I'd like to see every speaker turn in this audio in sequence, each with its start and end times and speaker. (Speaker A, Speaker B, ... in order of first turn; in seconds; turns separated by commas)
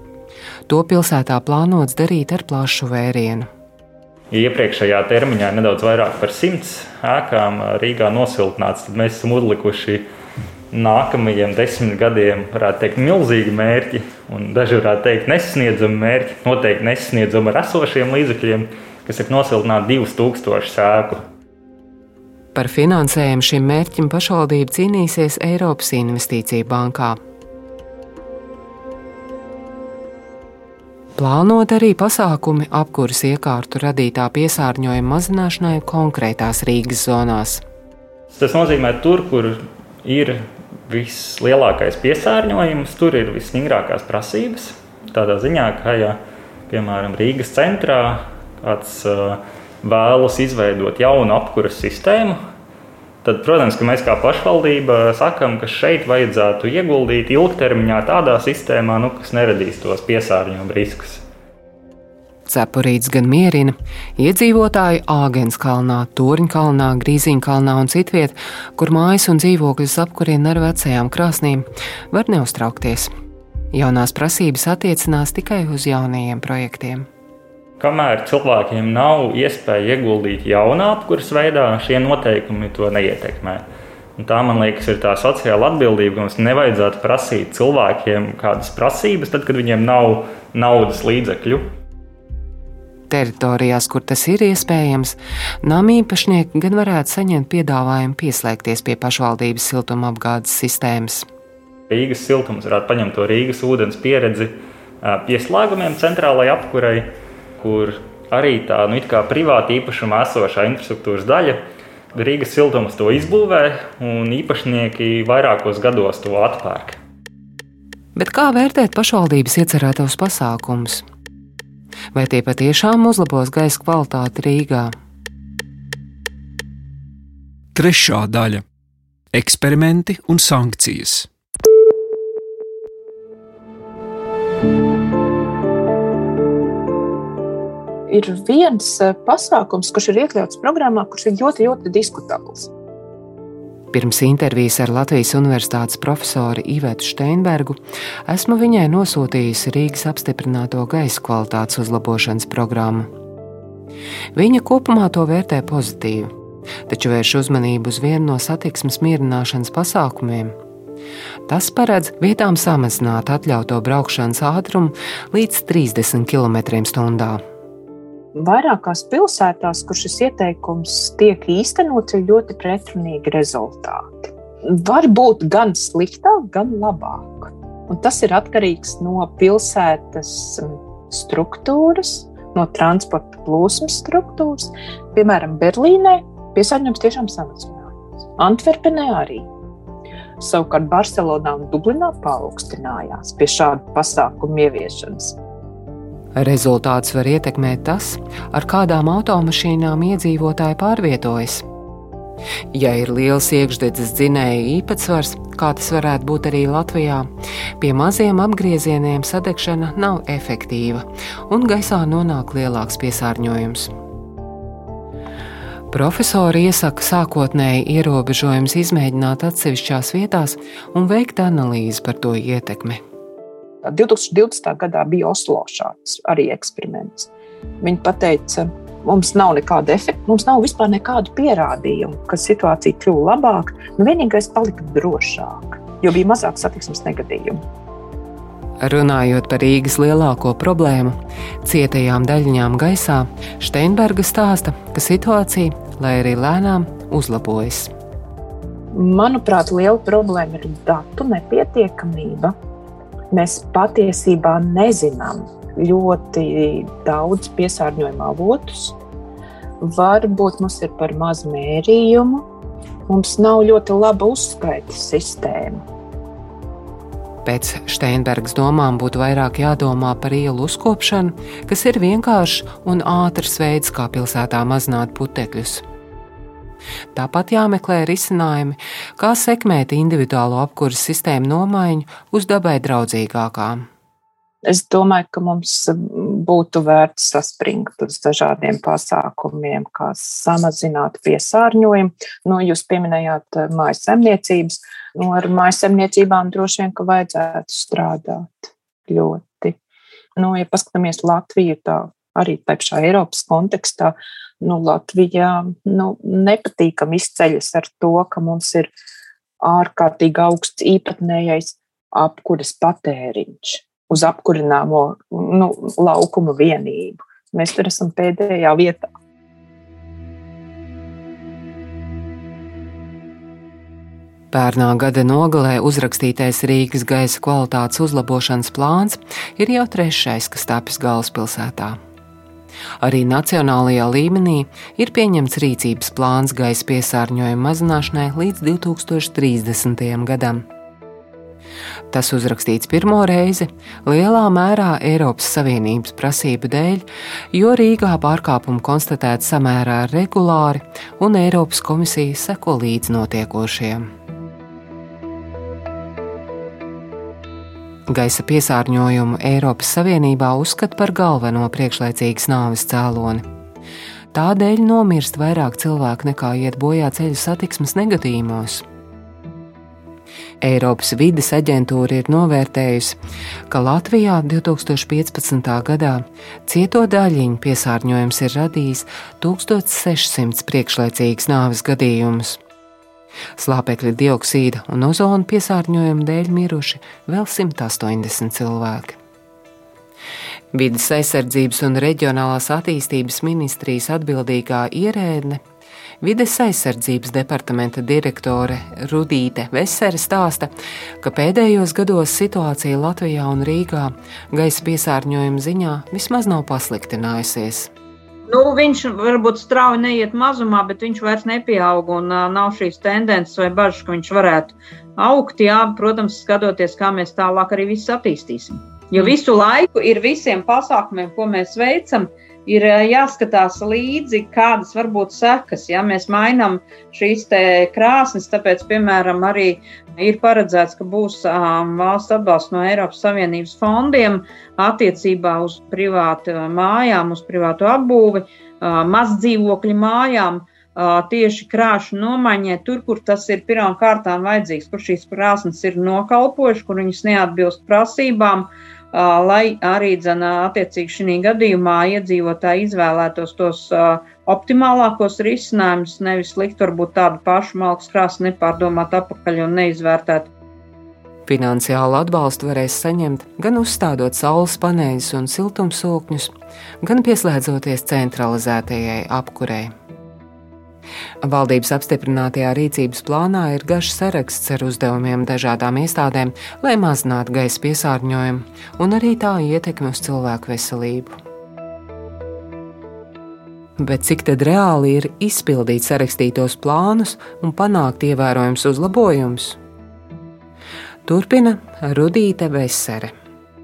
Speaker A: 0.7-3.5, Speaker B: 4.3-10.1, Speaker B: 10.7-21.2, Speaker A: 22.6-27.2, Speaker A: 31.2-37.6, Speaker B: 38.3-52.4, Speaker B: 53.2-61.2, Speaker A: 62.5-73.1, Speaker A: 73.7-77.1, Speaker B: 77.8-83.6, Speaker B: 84.2-91.7, Speaker A: 93.1-101.3, Speaker B: 101.9-107.1, Speaker B: 107.6-111.6, Speaker B: 112.1-117.0, Speaker A: 118.2-121.0, Speaker A: 122.1-124.9, Speaker C: 127.7-128.6, Speaker C: 129.3-131.3, Speaker D: 138.1-142.7, Speaker A: 143.9-153.1, Speaker A: 154.3-156.3, Speaker A: 156.9-160.6, Speaker A: 161.5-167.4, Speaker D: 168.3-189.5, Speaker D: 190.4-195.4, Speaker A: 196.4-201.7, Speaker A: 202.7-207.3, Speaker A: 207.8-213.9, Speaker A: 215.9-223.0, Speaker D: 223.8-227.3, Speaker D: 227.8-237.6, Speaker A: 238.8-247.9, Speaker D: 248.9-252.6, Speaker D: 253.3-259.0, Speaker D: 259.8-262.5, Speaker D: 263.1-265.8, Speaker A: 267.4-275.8, Speaker A: 277.1-283.9, Speaker D: 284.6-299.8, Speaker D: 300.4-308.9, Speaker D: 309.6-319.1, Speaker A: 324.5-332.0, Speaker A: 333.0-340.7, Speaker A: 342.1-354.1, Speaker A: 358.1-363.4, Speaker A: 364.3-368.9, Speaker A: 370.6-373.2, Speaker A: 373.7-382.6, Speaker A: 383.6-389.2, Speaker A: 390.7-395.6, Speaker A: 396.2-400.7, Speaker A: 401.2-407.9, Speaker E: 408.5-460.5, Speaker A: 461.5-469.9, Speaker A: 471.4-481.4, Speaker A: 484.0-489.8, Speaker A: 491.2-493.3